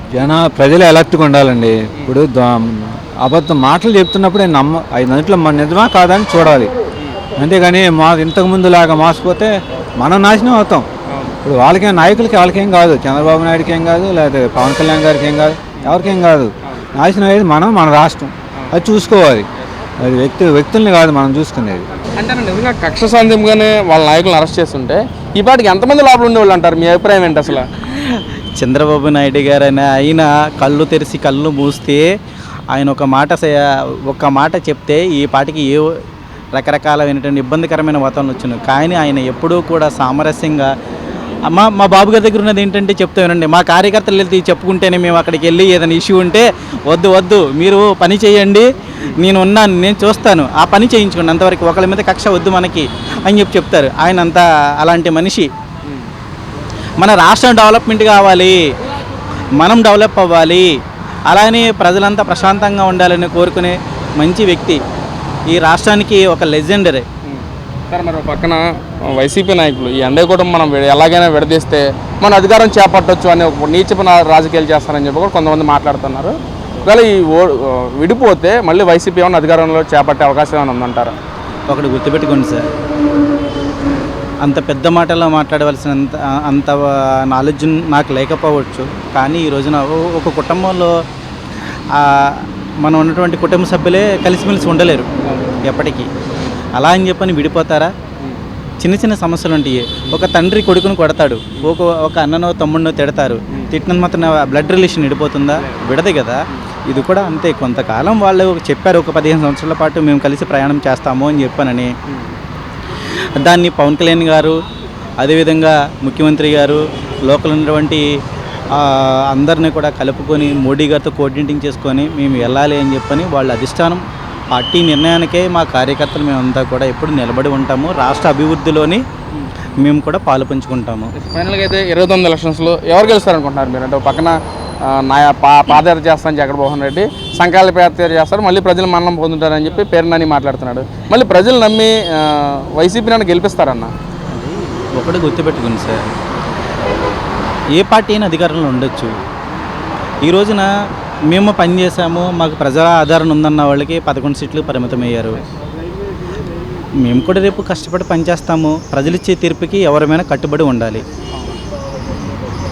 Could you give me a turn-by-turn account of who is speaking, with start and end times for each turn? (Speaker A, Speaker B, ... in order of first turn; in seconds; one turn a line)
Speaker A: 0.1-6.7
Speaker A: 7.4-10.8
Speaker A: 11.4-19.5
Speaker A: 20.0-21.9
Speaker B: 21.9-27.7
Speaker C: 27.9-32.0
Speaker C: 32.7-35.9
Speaker C: 36.5-40.7
Speaker C: 41.5-48.6
Speaker C: 49.2-55.5
Speaker C: 57.0-58.6
Speaker C: 59.6-60.7
Speaker C: 61.3-64.8
Speaker C: 65.5-67.0
Speaker B: 67.3-81.1
Speaker C: 81.7-82.6
Speaker C: 84.5-86.8
Speaker C: 87.3-90.9
Speaker C: 92.0-95.1
Speaker B: 95.2-95.6
Speaker C: 95.7-96.1
Speaker C: 96.8-97.9
Speaker C: 98.8-106.3
Speaker C: 106.9-111.9
Speaker B: 112.1-112.3
Speaker C: 113.4-114.5
Speaker C: 115.2-118.0
Speaker C: 118.7-129.0
Speaker B: 122.3-122.6
Speaker B: 129.3-129.8
Speaker C: 129.8-131.1
Speaker B: 131.2-143.9
Speaker C: 144.3-145.9
Speaker C: 147.8-149.1
Speaker C: 150.2-150.7
Speaker C: 151.3-155.4
Speaker C: 157.1-161.0